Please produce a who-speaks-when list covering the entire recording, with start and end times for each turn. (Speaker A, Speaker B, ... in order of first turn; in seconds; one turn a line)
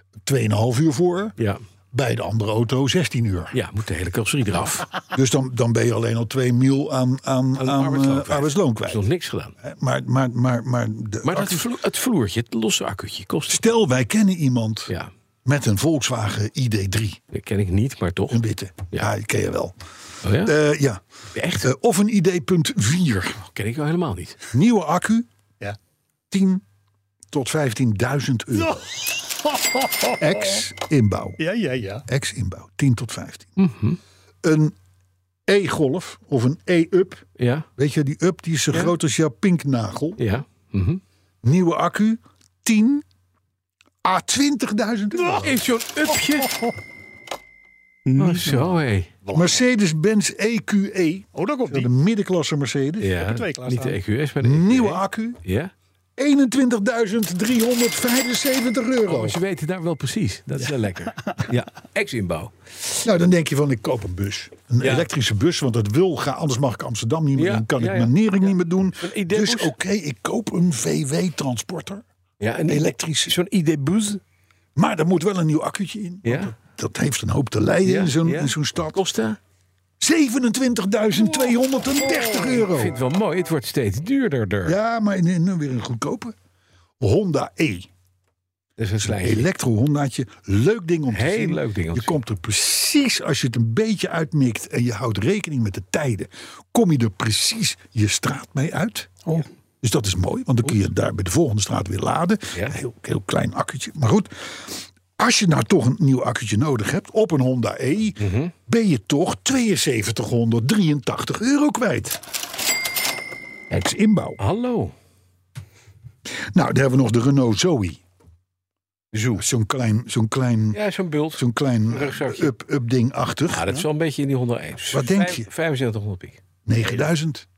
Speaker A: 0.2-1.4
Speaker A: 1.9-3.5
Speaker B: 3.5-4.9
Speaker A: 5.1-9.0
Speaker B: 7.6-9.5
Speaker A: 9.6-11.7
Speaker B: 11.2-13.7
Speaker A: 13.5-14.9
Speaker A: 15.4-17.2
Speaker B: 17.3-18.4
Speaker A: 18.3-19.7
Speaker B: 20.2-20.5
Speaker A: 20.4-21.0
Speaker B: 21.3-21.7
Speaker A: 21.6-23.4
Speaker B: 23.4-24.4
Speaker A: 24.5-25.3
Speaker A: 26.3-26.6
Speaker A: 27.3-28.9
Speaker C: 28.6-30.6
Speaker A: 30.2-31.4
Speaker C: 31.4-32.0
Speaker A: 32.1-33.5
Speaker B: 33.6-34.0
Speaker A: 34.4-34.7
Speaker A: 35.5-37.2
Speaker B: 37.4-37.7
Speaker A: 37.8-40.2
Speaker B: 40.2-41.0
Speaker A: 41.4-43.0
Speaker A: 44.0-45.6
Speaker C: 45.2-45.4
Speaker B: 45.4-46.5
Speaker C: 46.2-46.7
Speaker C: 48.0-48.7
Speaker B: 48.2-49.1
Speaker C: 49.2-49.6
Speaker A: 49.3-53.2
Speaker C: 51.3-51.9
Speaker B: 53.0-55.7
Speaker C: 53.2-54.0
Speaker A: 54.4-55.4
Speaker A: 56.2-59.4
Speaker B: 59.1-62.5
Speaker A: 63.0-72.0
Speaker B: 64.8-65.1
Speaker B: 67.3-69.7
Speaker B: 72.4-74.2
Speaker A: 72.7-73.3
Speaker A: 74.7-79.0
Speaker B: 76.2-76.5
Speaker B: 77.8-79.4
Speaker A: 80.0-83.0
Speaker B: 82.4-84.8
Speaker A: 84.6-86.3
Speaker A: 87.0-87.9
Speaker B: 88.8-89.5
Speaker A: 89.0-99.2
Speaker B: 91.1-92.2
Speaker A: 99.8-112.2
Speaker B: 102.5-102.8
Speaker B: 108.2-108.5
Speaker A: 113.7-114.4
Speaker B: 114.4-114.9
Speaker A: 116.4-118.0
Speaker B: 119.1-119.4
Speaker A: 119.3-120.8
Speaker B: 120.7-122.5
Speaker A: 121.3-123.7
Speaker B: 123.5-127.0
Speaker A: 124.9-125.5
Speaker A: 126.7-127.5